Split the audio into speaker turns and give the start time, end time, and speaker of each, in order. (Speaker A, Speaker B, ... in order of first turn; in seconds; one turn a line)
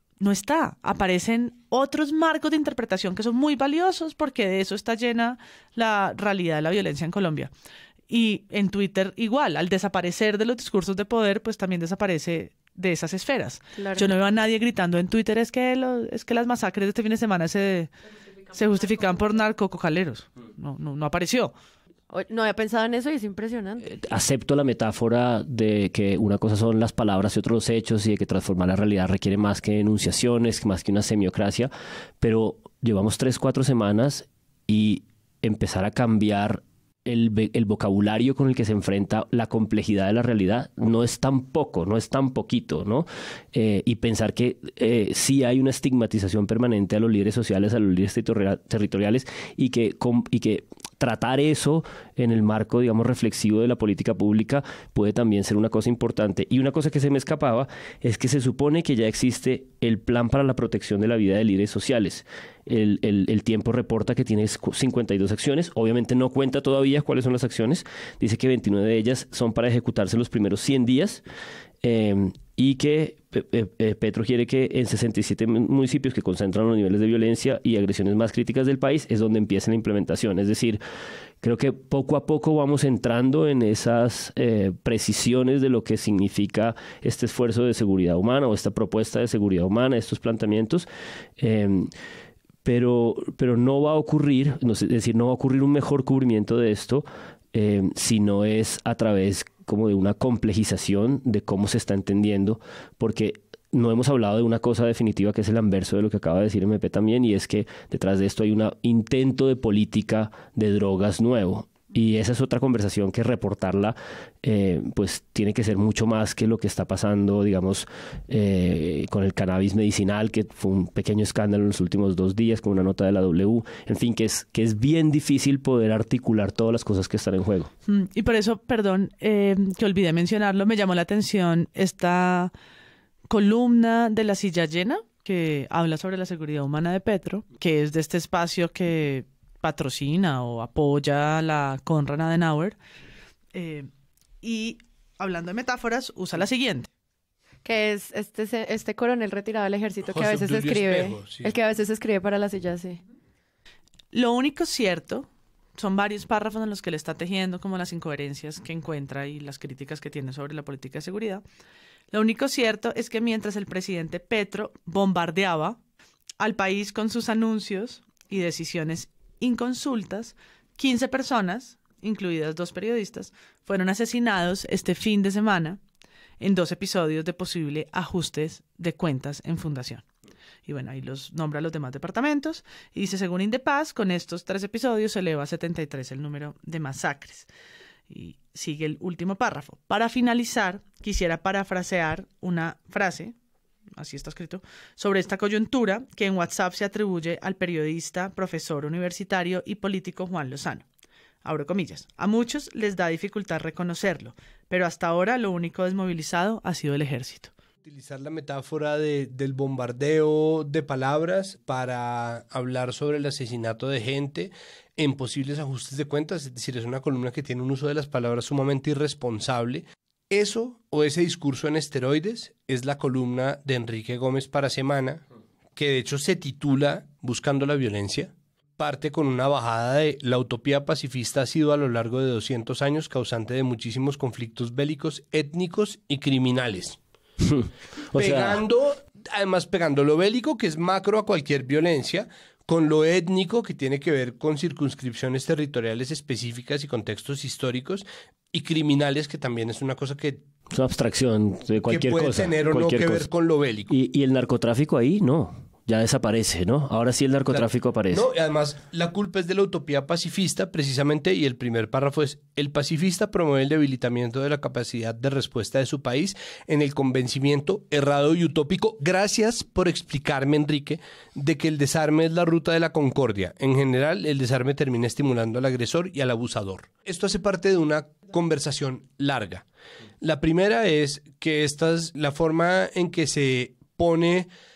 Speaker A: 0.2-7.5
Speaker A: 8.1-17.9
Speaker B: 13.8-14.1
Speaker A: 18.5-21.5
Speaker B: 22.1-23.9
Speaker C: 23.8-71.2
Speaker C: 71.8-80.8
Speaker C: 81.4-90.9
Speaker C: 91.4-91.9
Speaker C: 92.6-127.7
Speaker A: 127.9-132.5
Speaker A: 133.3-142.8
Speaker A: 143.5-143.9
Speaker A: 144.4-146.9
Speaker B: 147.6-153.0
Speaker D: 150.1-151.5
Speaker A: 154.1-161.4
Speaker A: 162.1-165.8
Speaker A: 166.4-175.8
Speaker A: 176.4-180.0
Speaker A: 180.7-187.5
Speaker A: 188.1-193.3
Speaker A: 193.9-200.8
Speaker A: 201.4-207.5
Speaker D: 207.8-225.2
Speaker D: 225.8-237.0
Speaker C: 237.4-238.6
Speaker D: 238.1-250.4
Speaker C: 250.7-253.3
Speaker D: 251.9-253.9
Speaker C: 253.9-258.3
Speaker D: 257.5-279.6
Speaker D: 280.2-284.5